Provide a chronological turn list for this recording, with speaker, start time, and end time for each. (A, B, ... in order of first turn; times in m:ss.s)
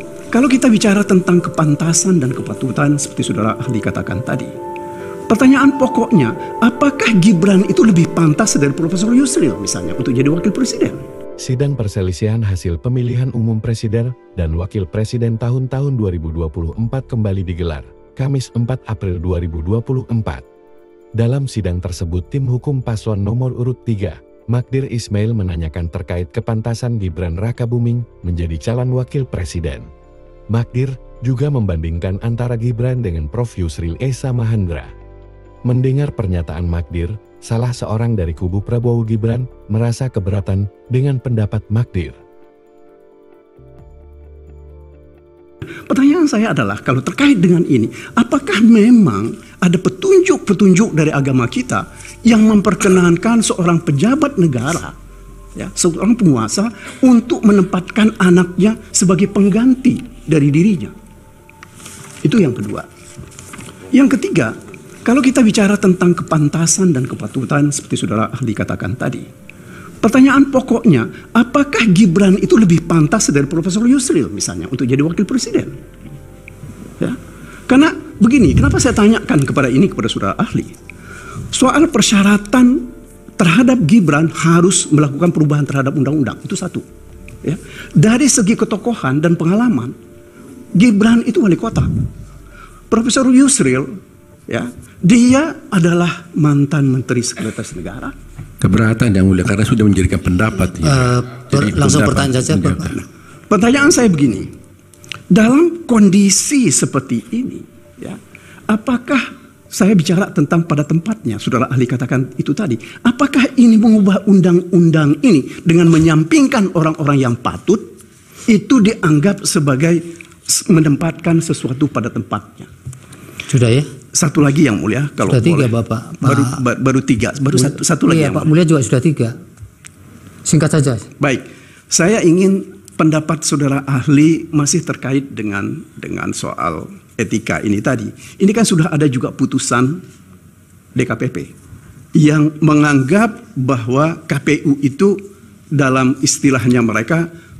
0:00.3-0:04.5 A
0:05.3-0:11.0 A
0:11.4-0:20.4 B
0:21.2-0:29.9 B
0:30.5-0:34.9 B
0:35.6-0:42.2 B
0:45.9-0:54.9 A
0:55.5-1:00.9 A
1:02.2-1:02.9 A
1:03.9-1:04.5 A
1:05.0-1:09.3 A
1:10.0-1:15.8 A
1:17.7-1:20.7 A
1:21.5-1:22.9 A
1:23.4-1:26.8 A
1:27.4-1:29.9 A
1:30.7-1:31.9 A
1:32.9-1:33.9 A
1:34.5-1:38.1 A
1:38.6-1:43.0 C
1:40.8-1:42.9 D
1:42.8-1:44.5 A
1:45.3-1:57.8 A
1:58.5-2:02.7 A
2:03.5-2:03.9 D
2:04.1-2:08.5 A
2:05.2-2:06.6 D
2:07.5-2:09.4 D
2:10.4-2:11.0 D
2:11.2-2:20.0 A
2:20.9-2:21.5 A
2:22.2-2:25.2 A
2:25.7-2:27.3 A